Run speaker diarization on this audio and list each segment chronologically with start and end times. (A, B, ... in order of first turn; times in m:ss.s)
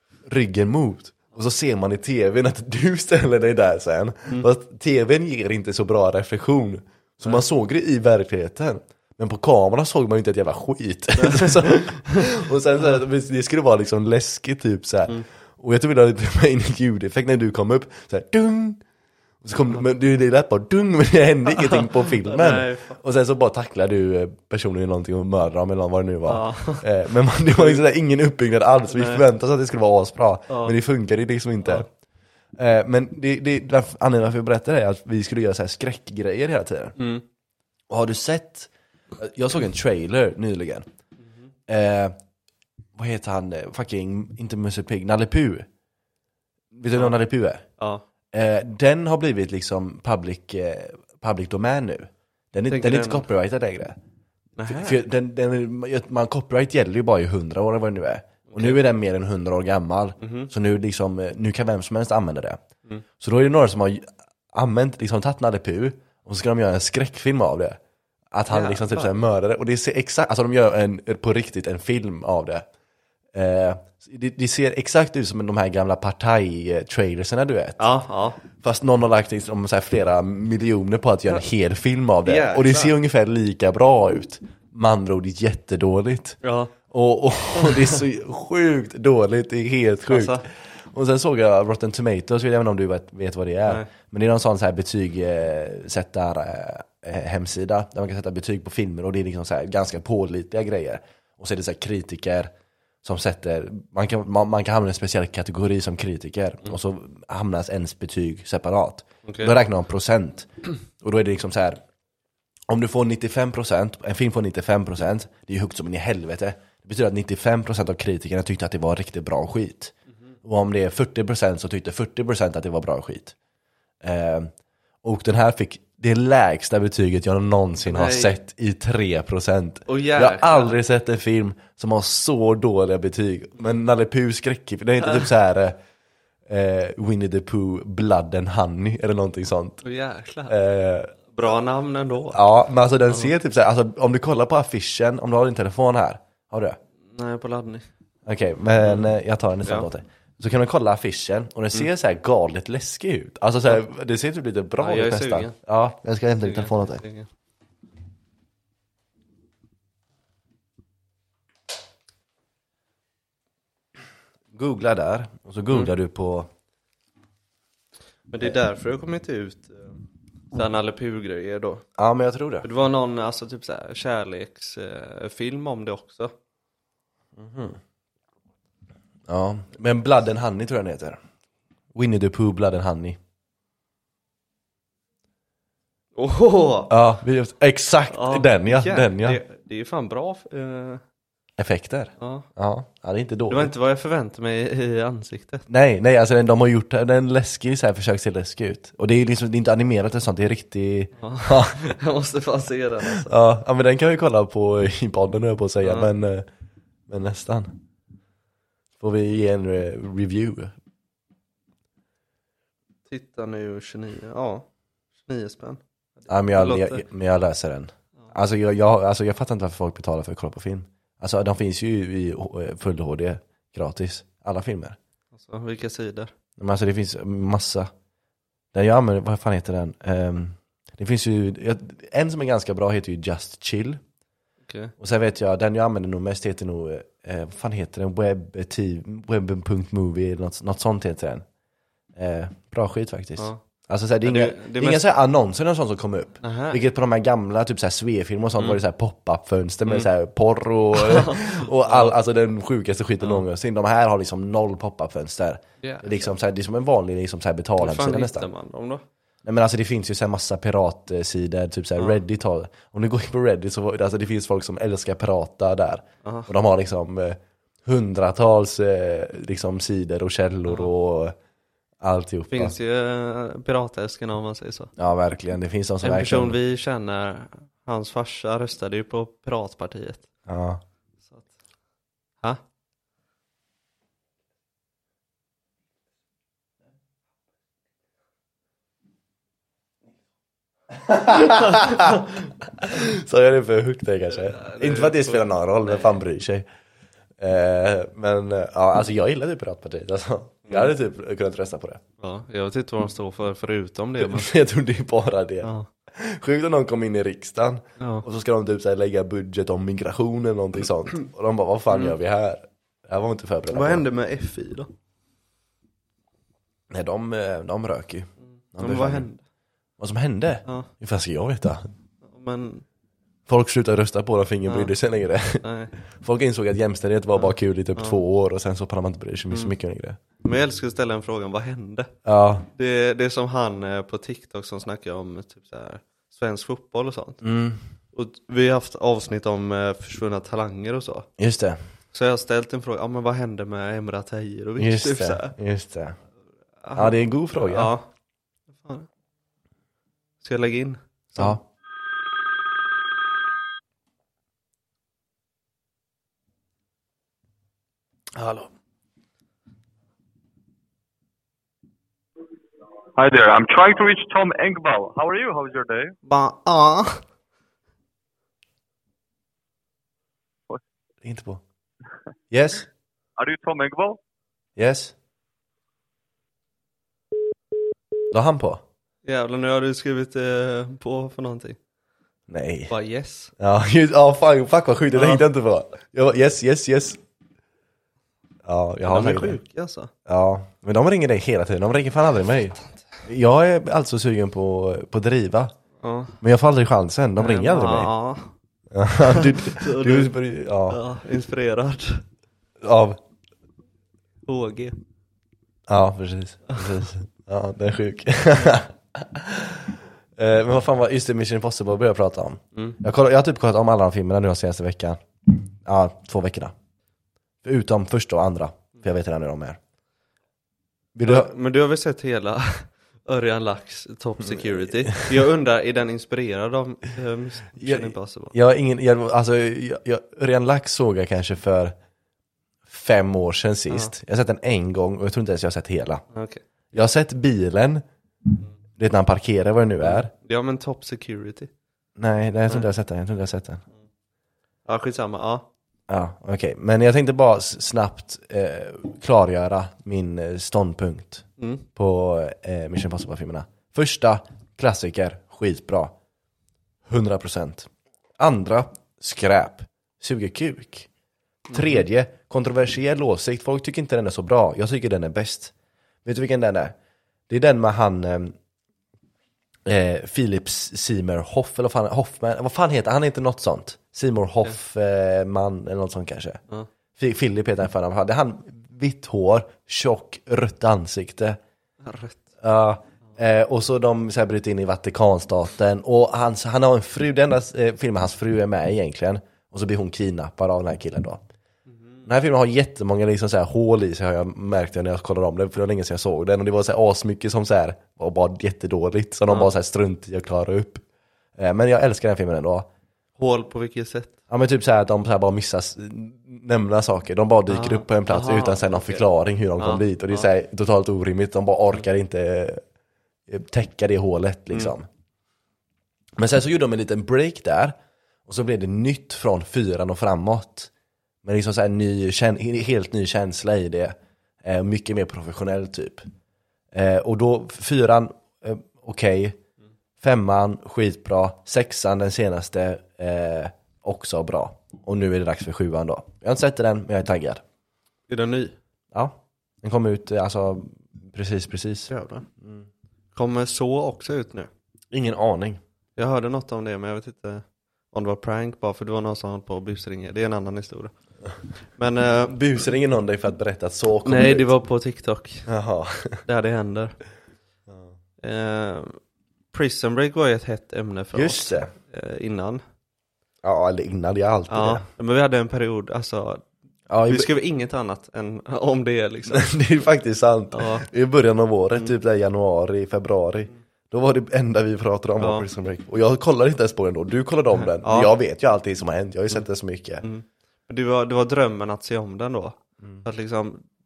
0:00.3-0:18.8 A
0:11.2-0:12.2 B
0:19.4-0:31.9 A
0:21.6-0:23.0 B
0:26.3-0:26.9 B
0:27.5-0:27.8 B
0:28.9-0:29.2 B
0:30.5-0:30.7 B
0:32.6-0:37.0 A
0:37.0-0:37.2 B
0:37.9-0:40.9 A
0:41.7-0:42.2 A
0:43.0-0:45.7 A
0:46.7-0:47.6 A
0:47.8-0:48.0 B
0:48.3-0:54.0 A
0:52.7-0:53.3 B
0:54.6-0:55.0 B
0:54.7-1:02.6 A
0:58.5-0:58.8 B
1:00.2-1:00.5 B
1:03.2-1:07.8 A
1:08.3-1:12.7 A
1:08.5-1:09.1 B
1:13.3-1:17.9 A
1:17.8-1:18.4 B
1:18.4-1:26.4 A
1:22.2-1:23.0 B
1:26.4-1:26.7 B
1:26.9-1:42.5 A
1:27.6-1:27.9 B
1:30.1-1:30.4 B
1:43.0-1:51.8 A
1:49.2-1:49.5 B
1:52.7-2:03.4 A
2:04.0-2:15.8 A
2:07.9-2:08.4 B
2:09.9-2:10.8 B
2:16.5-2:19.8 A
2:19.8-2:20.6 B
2:20.5-2:21.1 A
2:21.3-2:22.4 B
2:22.3-2:26.8 A
2:27.1-2:27.9 B
2:28.3-2:37.0 A
2:34.8-2:35.6 B
2:36.4-2:37.3 B
2:44.5-2:46.5 A
2:48.3-2:50.0 B
2:50.5-2:51.8 B
2:52.0-2:52.7 A
2:52.6-2:56.3 B
2:57.4-2:57.8 A
2:59.3-3:01.2 A
3:01.9-3:03.2 A
3:06.2-3:06.9 B
3:06.9-3:09.4 A
3:08.1-3:11.0 B
3:11.6-3:13.7 A
3:12.2-3:12.5 B
3:13.5-3:15.7 B
3:15.7-3:21.9 A
3:21.2-3:23.4 B
3:23.0-3:26.5 A
3:25.8-3:26.1 B
3:27.1-3:27.8 A
3:29.0-3:30.8 A
3:33.1-3:34.7 B
3:35.2-3:37.0 B
3:36.3-3:45.0 A
3:45.4-3:46.3 B
3:46.6-3:47.9 A
3:48.7-3:54.0 A
3:54.7-3:54.9 B
3:55.0-4:01.4 A
4:02.2-4:18.5 A
4:04.2-4:05.0 B
4:06.4-4:06.8 B
4:11.0-4:12.2 B
4:15.8-4:16.3 B
4:17.8-4:19.0 B
4:19.4-4:31.4 A
4:26.2-4:26.5 B
4:32.0-4:32.8 A
4:32.5-4:34.9 B
4:35.0-4:36.6 A
4:36.0-4:40.3 B
4:40.5-4:40.8 A
4:51.1-4:52.2 A
4:52.8-4:56.7 A
4:54.5-4:56.2 B
4:57.4-5:02.0 A
5:02.2-5:04.5 B
5:04.2-5:14.0 A
5:05.6-5:05.9 B
5:08.0-5:08.2 B
5:11.9-5:12.2 B
5:13.7-5:14.9 B
5:16.9-5:19.3 A
5:18.6-5:19.4 B
5:20.0-5:21.9 A
5:22.3-5:22.8 B
5:23.5-5:30.2 A
5:24.7-5:24.9 B
5:25.6-5:25.9 B
5:27.3-5:28.2 B
5:30.4-5:32.1 B
5:32.2-5:32.7 A
5:32.7-5:37.4 B
5:37.4-5:37.8 A
5:38.1-5:41.3 B
5:41.4-5:41.8 A
5:42.1-5:45.6 B
5:44.8-5:46.2 A
5:46.8-5:48.1 B
5:47.0-5:47.9 A
5:48.8-5:49.1 B
5:50.4-5:51.6 B
5:51.4-5:51.6 A
6:03.2-6:06.2 C
6:06.3-6:07.2 B
6:11.2-6:11.6 A
6:12.5-6:12.9 A
6:13.4-6:14.2 C
6:14.8-6:15.1 A
6:18.3-6:18.8 A
6:19.2-6:21.8 B
6:22.5-6:22.9 A
6:22.9-6:23.5 B
6:23.6-6:27.2 A
6:25.1-6:25.4 B
6:28.7-6:29.6 A
6:29.1-6:30.1 B
6:30.3-6:35.7 A
6:36.0-6:36.4 B
6:36.4-6:38.1 A
6:37.4-6:38.5 B
6:38.9-6:41.0 A
6:39.3-6:40.3 B
6:40.9-6:42.2 B
6:42.8-6:43.2 A
6:44.5-6:45.0 B
6:45.9-6:56.7 A
6:57.6-6:59.8 A
7:01.1-7:01.5 A
7:01.2-7:08.5 B
7:04.4-7:05.3 A
7:07.8-7:12.0 A
7:12.9-7:16.2 A
7:16.3-7:16.6 B
7:16.9-7:18.0 A
7:19.0-7:20.3 A
7:20.0-7:21.7 B
7:22.2-7:23.8 A
7:24.9-7:25.7 B
7:26.1-7:36.1 A
7:31.6-7:31.9 B
7:37.1-7:41.1 A
7:41.7-7:45.7 A
7:46.2-7:47.0 A
7:47.5-7:48.6 A
7:49.9-7:56.6 A
7:57.2-8:01.6 A
8:02.0-8:02.4 B
8:02.6-8:11.4 A
8:11.9-8:12.2 B
8:12.2-8:21.0 A
8:21.6-8:22.9 A
8:23.4-8:24.3 B
8:24.5-8:32.8 A
8:27.7-8:29.2 B
8:29.8-8:30.5 B
8:33.5-8:35.1 A
8:36.4-8:40.9 A
8:41.4-8:46.3 A
8:46.9-8:49.6 A
8:50.2-8:57.6 A
8:58.3-8:58.8 B
8:59.1-9:02.9 A
9:02.1-9:02.5 B
9:03.4-9:04.7 B
9:05.1-9:05.8 A
9:06.2-9:11.2 B
9:11.9-9:12.6 B
9:12.4-9:14.7 A
9:14.3-9:15.7 B
9:15.7-9:16.4 A
9:16.4-9:17.2 B
9:17.9-9:18.2 A
9:18.4-9:19.2 B
9:19.7-9:22.8 B
9:21.3-9:21.9 A
9:23.6-9:25.0 A
9:24.7-9:26.6 B
9:27.1-9:27.5 A
9:27.3-9:29.7 B
9:29.5-9:40.2 A
9:30.7-9:31.1 B
9:35.4-9:35.7 B
9:37.8-9:38.3 B
9:40.2-9:43.8 B